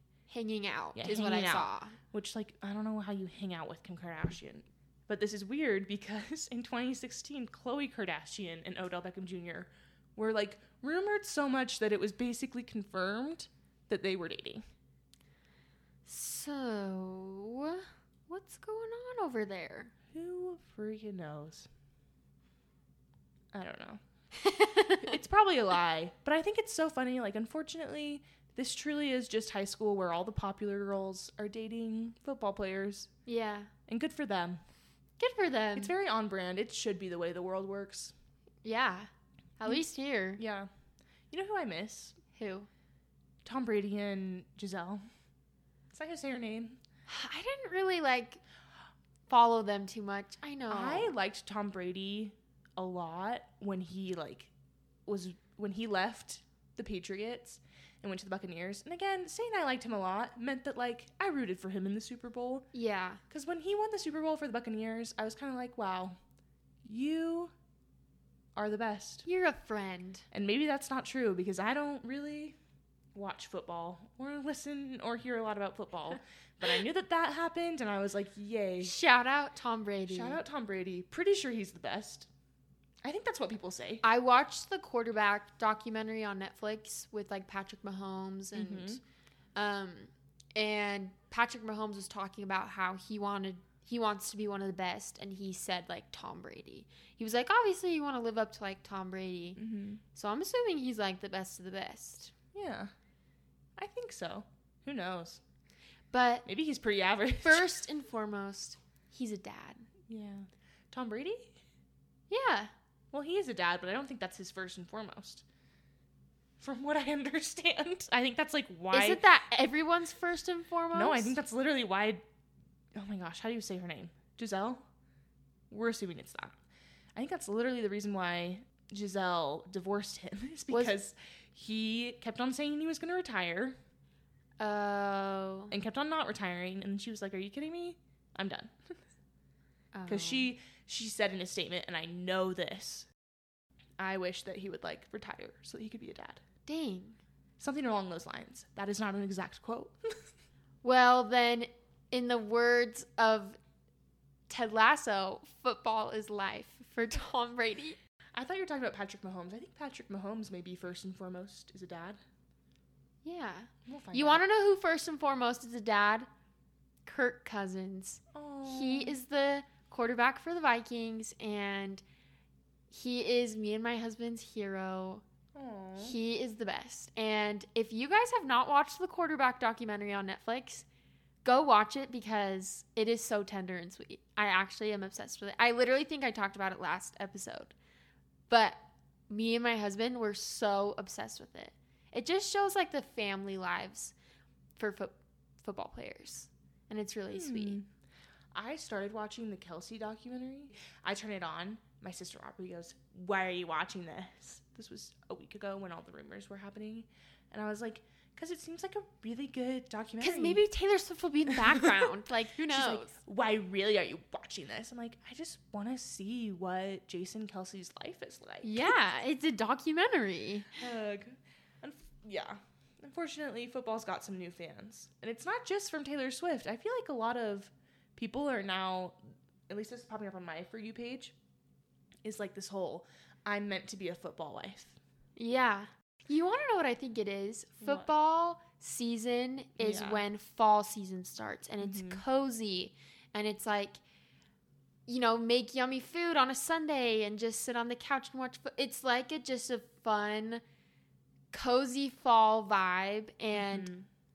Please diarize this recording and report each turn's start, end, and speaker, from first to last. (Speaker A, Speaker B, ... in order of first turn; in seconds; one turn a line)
Speaker A: 0.3-2.0
Speaker B: 0.9-14.6
Speaker A: 16.1-19.9
Speaker B: 20.1-21.7
Speaker B: 23.5-24.0
Speaker A: 24.4-25.1
Speaker B: 25.0-33.1
Speaker A: 33.2-33.7
Speaker B: 33.9-34.6
Speaker A: 35.2-35.9
Speaker B: 35.7-38.1
Speaker A: 38.6-40.4
Speaker B: 40.4-40.7
Speaker B: 41.3-42.2
Speaker A: 42.3-42.7
Speaker B: 43.4-45.0
Speaker B: 45.9-46.8
Speaker A: 47.1-48.4
Speaker A: 49.3-51.1
Speaker B: 50.7-54.5
Speaker B: 55.1-62.6
Speaker A: 62.7-63.2
Speaker B: 63.3-66.2
Speaker B: 66.8-67.5
Speaker B: 68.6-69.2
Speaker A: 69.2-70.2
Speaker B: 70.3-72.6
Speaker B: 73.1-79.0
Speaker A: 78.8-80.4
Speaker B: 80.1-82.3
Speaker B: 83.0-84.0
Speaker A: 84.0-89.0
Speaker B: 88.5-89.0
Speaker A: 89.6-99.6
Speaker B: 99.6-100.0
Speaker A: 100.1-102.3
Speaker B: 102.5-102.9
Speaker B: 103.8-105.4
Speaker A: 106.1-106.5
Speaker B: 106.5-107.8
Speaker A: 107.4-109.9
Speaker B: 110.1-111.5
Speaker A: 112.3-112.7
Speaker B: 113.1-115.4
Speaker B: 116.6-119.2
Speaker A: 118.9-121.3
Speaker B: 120.9-122.2
Speaker B: 122.9-124.8
Speaker B: 125.7-126.6
Speaker B: 127.1-133.8
Speaker A: 130.7-131.0
Speaker A: 134.6-135.7
Speaker B: 135.7-138.8
Speaker A: 139.9-140.5
Speaker B: 140.1-143.1
Speaker B: 144.0-146.4
Speaker A: 146.7-147.2
Speaker B: 147.6-150.0
Speaker A: 150.8-153.6
Speaker A: 154.5-158.0
Speaker B: 158.3-162.2
Speaker A: 163.2-166.3
Speaker B: 163.9-164.4
Speaker A: 167.1-172.0
Speaker B: 168.3-169.2
Speaker A: 172.9-175.2
Speaker B: 175.5-176.2
Speaker A: 176.0-180.9
Speaker A: 181.4-187.7
Speaker A: 188.5-194.1
Speaker A: 194.8-197.8
Speaker B: 197.3-197.9
Speaker B: 198.5-210.6
Speaker A: 210.2-213.1
Speaker B: 211.5-212.1
Speaker B: 212.7-219.0
Speaker A: 218.6-220.8
Speaker B: 220.8-231.3
Speaker B: 232.2-235.0
Speaker A: 235.4-244.0
Speaker B: 237.8-238.1
Speaker B: 239.8-240.2
Speaker B: 241.8-242.2
Speaker A: 245.1-250.6
Speaker A: 251.5-253.9
Speaker B: 253.5-254.1